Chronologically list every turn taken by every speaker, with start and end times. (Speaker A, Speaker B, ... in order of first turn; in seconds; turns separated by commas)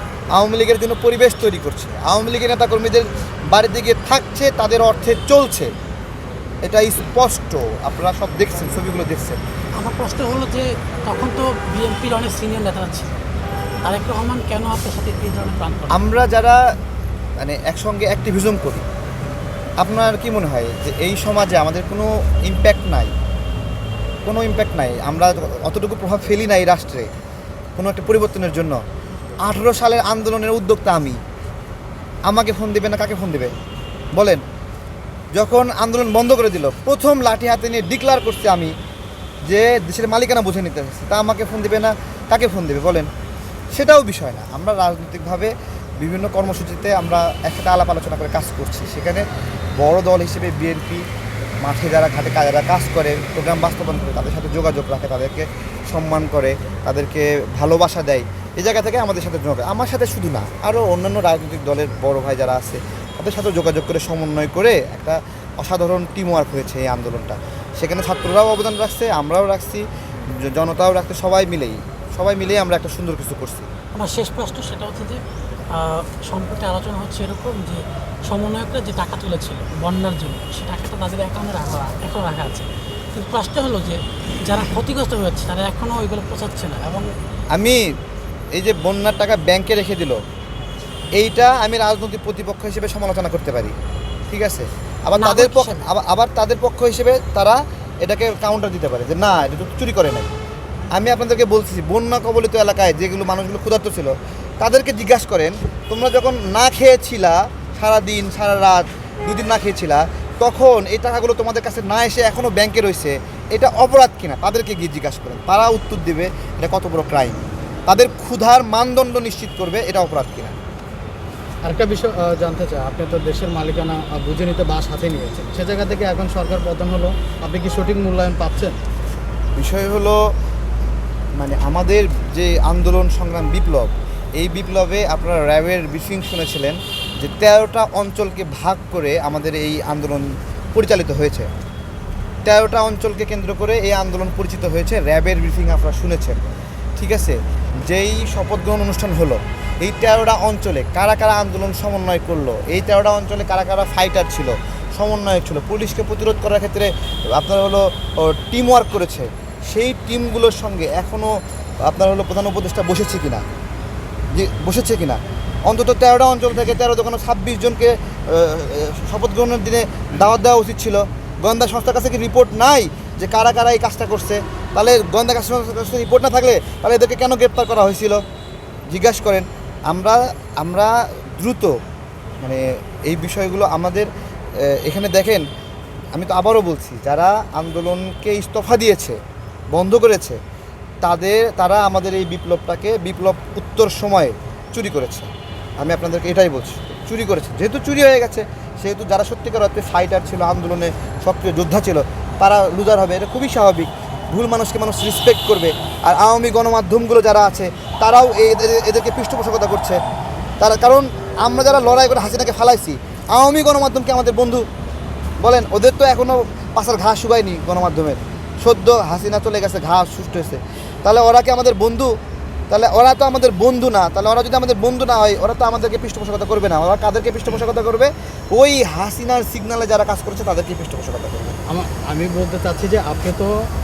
Speaker A: 0.3-5.7, Speaker A: 6.6-9.4, Speaker B: 9.8-13.1, Speaker B: 13.8-16.1, Speaker A: 15.9-16.6, Speaker A: 17.4-18.9, Speaker A: 19.8-23.1, Speaker A: 24.2-27.1, Speaker A: 27.8-28.8, Speaker A: 29.4-31.2, Speaker A: 32.3-33.6, Speaker A: 34.1-34.4, Speaker A: 35.4-38.7, Speaker A: 39.5-43.1, Speaker A: 43.7-49.3, Speaker A: 49.8-51.0, Speaker A: 51.6-73.7, Speaker B: 74.0-75.2, Speaker B: 75.7-87.1, Speaker A: 87.5-87.9, Speaker A: 88.5-90.2, Speaker A: 91.2-93.8, Speaker A: 94.3-100.3, Speaker B: 95.2-95.8, Speaker A: 100.9-120.5, Speaker C: 121.6-128.8, Speaker A: 129.6-130.2, Speaker A: 131.4-141.5, Speaker A: 142.4-146.4, Speaker A: 147.0-161.3, Speaker A: 161.8-163.4, Speaker A: 164.3-178.2, Speaker A: 178.9-181.8, Speaker A: 182.4-185.5, Speaker A: 186.2-189.2, Speaker A: 189.7-190.4, Speaker A: 191.0-210.0, Speaker A: 210.6-214.7, Speaker A: 215.4-222.1, Speaker A: 222.7-231.6, Speaker C: 231.7-233.7